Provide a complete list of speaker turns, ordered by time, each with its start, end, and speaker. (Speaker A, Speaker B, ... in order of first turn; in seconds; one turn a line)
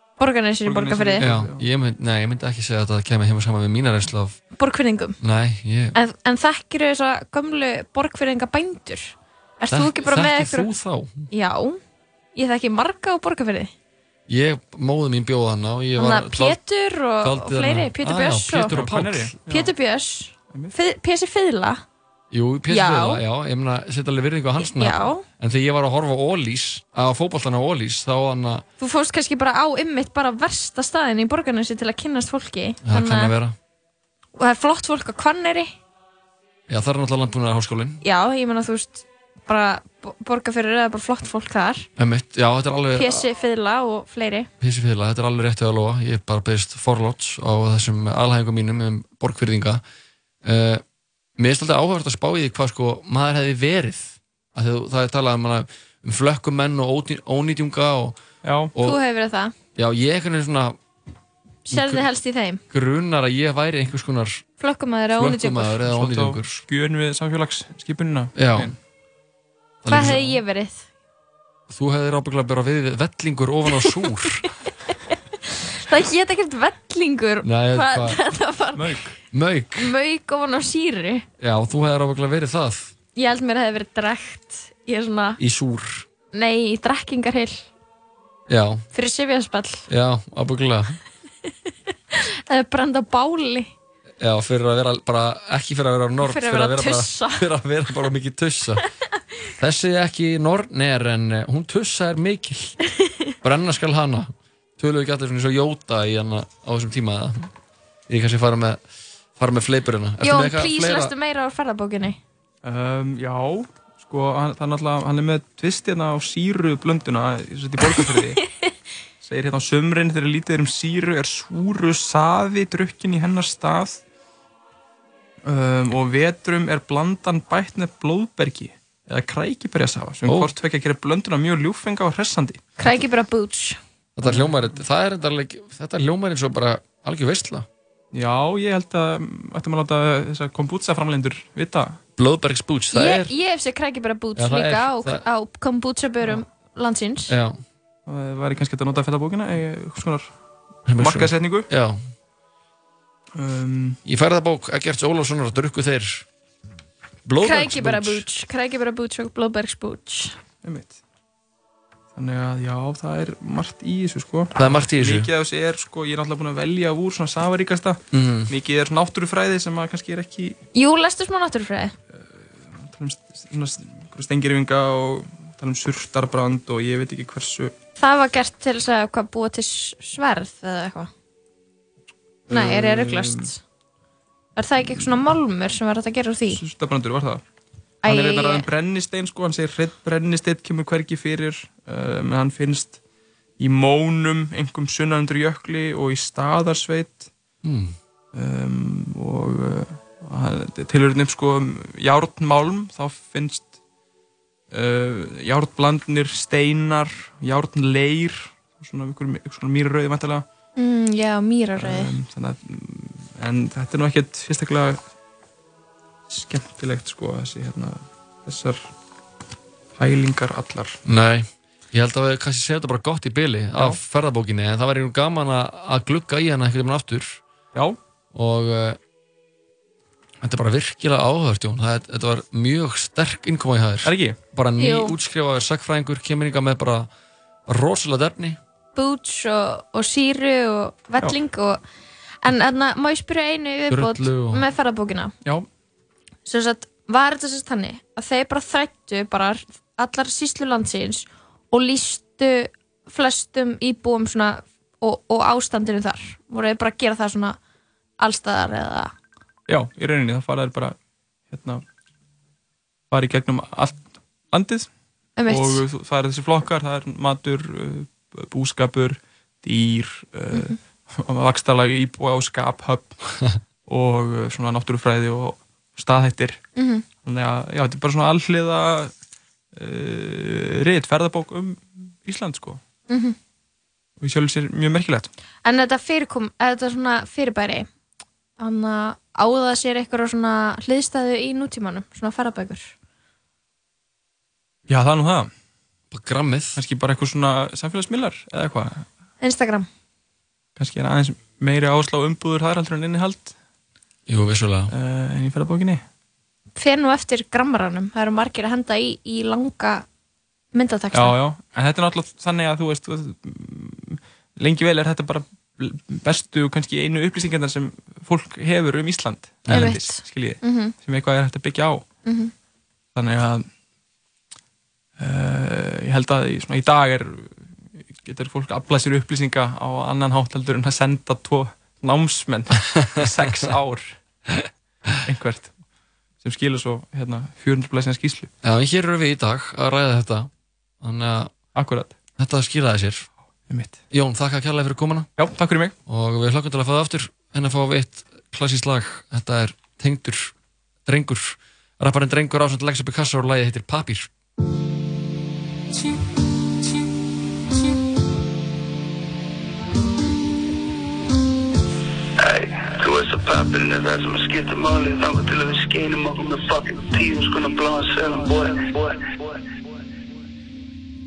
Speaker A: 0.2-1.3
Speaker B: 0.7-1.6
Speaker C: 1.2-4.4
Speaker A: 4.5-5.2
Speaker C: 5.2-6.0
Speaker A: 6.0-10.7
Speaker C: 9.7-11.3
Speaker A: 11.3-11.8
Speaker A: 12.3-13.7
Speaker C: 14.3-16.6
Speaker A: 16.0-18.8
Speaker C: 17.2-19.4
Speaker B: 18.7-19.7
Speaker A: 19.5-21.8
Speaker C: 22.3-28.7
Speaker A: 22.7-23.2
Speaker A: 24.6-25.2
Speaker A: 28.8-33.3
Speaker C: 32.9-33.5
Speaker A: 34.4-35.7
Speaker C: 36.7-38.0
Speaker A: 38.0-41.9
Speaker C: 42.0-43.3
Speaker A: 42.9-44.5
Speaker C: 44.6-49.8
Speaker C: 50.4-50.8
Speaker C: 51.4-58.2
Speaker B: 58.4-58.7
Speaker C: 58.7-59.0
Speaker A: 58.8-59.5
Speaker C: 59.8-60.8
Speaker A: 61.7-62.6
Speaker C: 61.7-62.0
Speaker C: 62.7-64.5
Speaker A: 64.6-65.8
Speaker C: 65.2-66.6
Speaker B: 65.9-68.8
Speaker C: 68.4-68.7
Speaker C: 69.8-70.3
Speaker A: 69.9-70.9
Speaker B: 70.0-70.2
Speaker C: 71.7-74.5
Speaker A: 73.7-79.0
Speaker C: 77.4-78.2
Speaker B: 78.7-79.2
Speaker C: 79.3-79.9
Speaker A: 79.8-81.3
Speaker C: 81.4-82.9
Speaker A: 83.2-85.4
Speaker C: 85.4-86.1
Speaker A: 86.3-87.7
Speaker C: 88.5-88.8
Speaker A: 88.9-89.9
Speaker C: 89.9-91.0
Speaker A: 91.5-93.7
Speaker C: 94.2-98.9
Speaker A: 96.2-97.5
Speaker C: 99.6-102.8
Speaker A: 103.0-103.3
Speaker C: 103.4-107.5
Speaker C: 108.1-108.8
Speaker C: 109.4-111.1
Speaker A: 110.2-112.2
Speaker B: 112.6-118.4
Speaker A: 117.8-118.7
Speaker B: 119.2-124.0
Speaker B: 125.5-132.6
Speaker C: 130.3-130.5
Speaker A: 132.8-133.8
Speaker C: 134.2-137.7
Speaker B: 134.2-134.8
Speaker B: 138.1-142.0
Speaker C: 142.2-143.3
Speaker A: 142.9-147.3
Speaker C: 144.4-145.2
Speaker C: 147.3-147.6
Speaker B: 148.1-150.3
Speaker C: 150.9-152.0
Speaker B: 151.0-151.7
Speaker B: 153.3-154.0
Speaker C: 154.1-156.3
Speaker C: 157.3-158.2
Speaker A: 157.4-160.4
Speaker B: 160.6-161.0
Speaker B: 162.2-170.6
Speaker C: 164.6-165.3
Speaker C: 168.1-168.5
Speaker A: 170.7-171.9
Speaker B: 172.1-177.7
Speaker A: 178.0-181.1
Speaker B: 182.5-183.5
Speaker A: 182.5-183.6
Speaker A: 184.6-186.6
Speaker B: 186.5-187.4
Speaker A: 188.0-188.7
Speaker B: 188.0-193.0
Speaker B: 193.6-197.3
Speaker C: 197.6-197.9
Speaker B: 198.3-203.7
Speaker B: 204.7-210.4
Speaker A: 210.8-212.1
Speaker B: 211.8-215.0
Speaker B: 216.3-218.9
Speaker B: 220.0-221.0
Speaker C: 221.1-227.4
Speaker C: 228.3-229.0
Speaker C: 230.4-237.1
Speaker B: 234.0-234.4
Speaker A: 234.8-235.2
Speaker C: 237.7-238.6
Speaker A: 238.9-241.8
Speaker A: 242.4-245.3
Speaker C: 243.9-244.7
Speaker A: 246.5-257.6
Speaker A: 258.2-259.1
Speaker B: 259.7-261.0
Speaker B: 261.5-261.8
Speaker B: 263.1-264.9
Speaker A: 265.4-265.8
Speaker B: 265.5-273.2
Speaker B: 273.9-276.6
Speaker A: 276.8-277.1
Speaker B: 277.2-279.1
Speaker B: 279.7-282.8
Speaker A: 283.1-283.4
Speaker B: 284.2-285.3
Speaker A: 285.6-287.9
Speaker A: 288.6-292.9
Speaker B: 294.9-295.5
Speaker C: 296.1-296.8
Speaker B: 296.8-299.1
Speaker A: 299.4-299.9
Speaker B: 300.8-303.5
Speaker C: 304.3-304.9
Speaker B: 304.9-306.0
Speaker A: 306.8-310.1
Speaker A: 310.7-311.4
Speaker B: 311.1-322.1
Speaker C: 319.7-319.9
Speaker A: 319.7-320.9
Speaker A: 322.2-322.5
Speaker B: 323.1-323.7
Speaker B: 325.2-334.2
Speaker B: 335.2-335.7
Speaker B: 336.4-338.5
Speaker C: 338.6-340.5
Speaker C: 341.0-341.5
Speaker B: 341.8-342.1
Speaker C: 342.4-343.3
Speaker B: 343.7-344.0
Speaker C: 344.1-345.3
Speaker B: 345.4-345.9
Speaker C: 346.1-350.5
Speaker C: 351.1-354.3
Speaker D: 362.4-369.7